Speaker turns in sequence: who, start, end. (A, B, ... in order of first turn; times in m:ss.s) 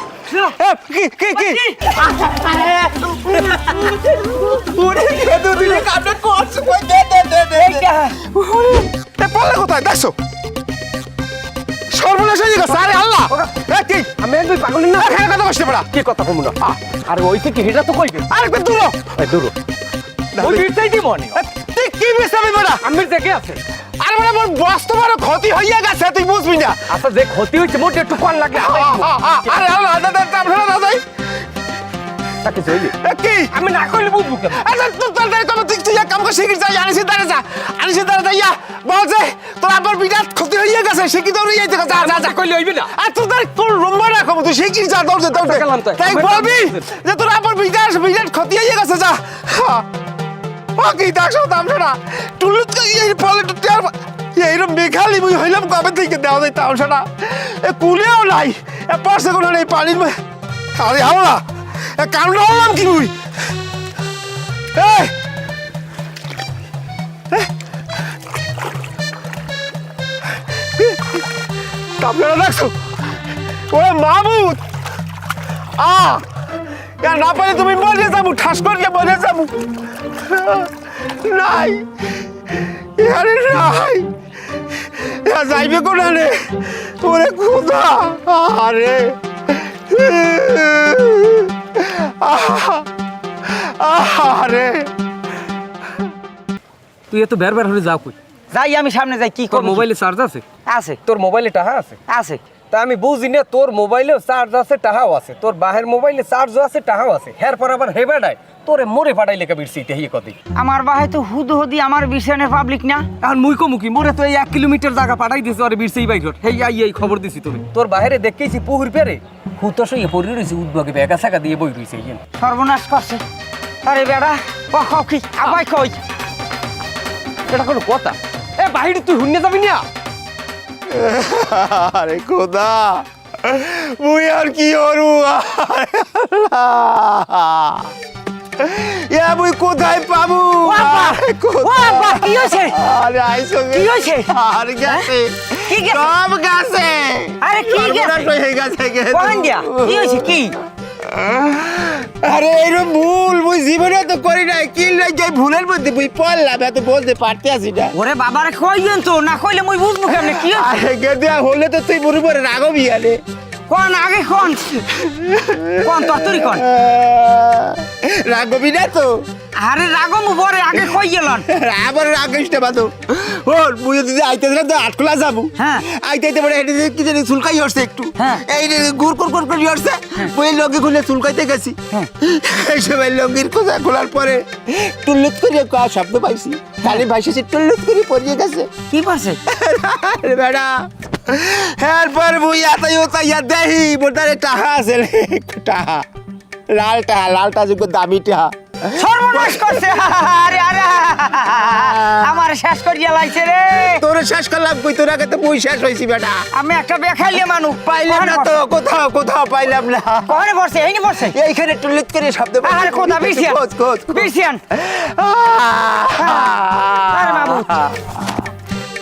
0:00.3-0:00.6 A
0:00.6-0:10.2 B
0:01.4-0:02.0 A
0:07.6-0:08.2 A
0:11.9-0:14.1 B
0:13.3-0:15.3 C
0:15.0-0:15.9 B
0:15.9-0:18.3 C
0:18.3-0:19.1 B
0:19.2-0:19.6 C
0:20.4-0:20.7 B
0:20.4-0:21.4 C
0:21.3-0:22.8 B
0:22.8-0:23.6 C
0:24.0-0:26.8 B
0:26.9-0:29.6 C
0:28.5-0:31.0 B
0:32.4-0:33.0 C
0:33.0-0:33.5 B
0:33.5-0:34.7 C
0:34.6-0:49.9 B
0:41.9-0:42.9 C
0:45.3-0:46.9 C
0:50.8-1:00.2 B
1:00.7-1:03.2 B
1:04.7-1:05.1 B
1:10.8-1:11.0 B
1:12.0-1:12.8 B
1:13.7-1:14.6 B
1:15.8-1:16.3 B
1:17.0-1:32.9 B
1:33.4-1:34.9 B
1:37.1-1:38.2 C
1:38.5-1:39.9 A
1:39.5-1:40.4 C
1:40.7-1:41.0 A
1:41.1-1:42.0 C
1:42.1-1:42.4 A
1:42.7-1:50.4 C
1:50.5-1:53.1 A
1:53.2-2:02.2 C
2:02.4-2:03.2 A
2:03.8-2:06.0 A
2:07.5-2:09.8 C
2:10.9-2:18.0 B
2:18.6-2:30.5 B
2:20.6-2:22.8 A
2:23.7-2:24.3 A
2:24.9-2:25.1 A
2:25.7-2:26.1 A
2:27.4-2:28.3 A
2:29.1-2:30.6 A
2:31.0-2:38.0 B
2:37.9-2:40.8 A
2:40.1-2:43.2 B
2:43.7-2:44.8 A
2:44.8-2:49.3 B
2:45.8-2:46.6 A
2:49.6-2:51.5 A
2:51.5-3:08.7 B
2:55.6-2:55.8 A
2:58.2-2:58.5 A
3:08.9-3:09.4 A
3:09.5-3:16.1 B
3:16.7-3:20.1 B
3:18.9-3:24.0 A
3:21.7-3:22.3 B
3:23.8-3:26.5 B
3:26.5-3:28.6 A
3:27.8-3:30.4 B
3:30.3-3:31.4 A
3:31.2-3:38.5 B
3:32.6-3:34.6 A
3:36.2-3:36.6 A
3:37.1-3:37.8 A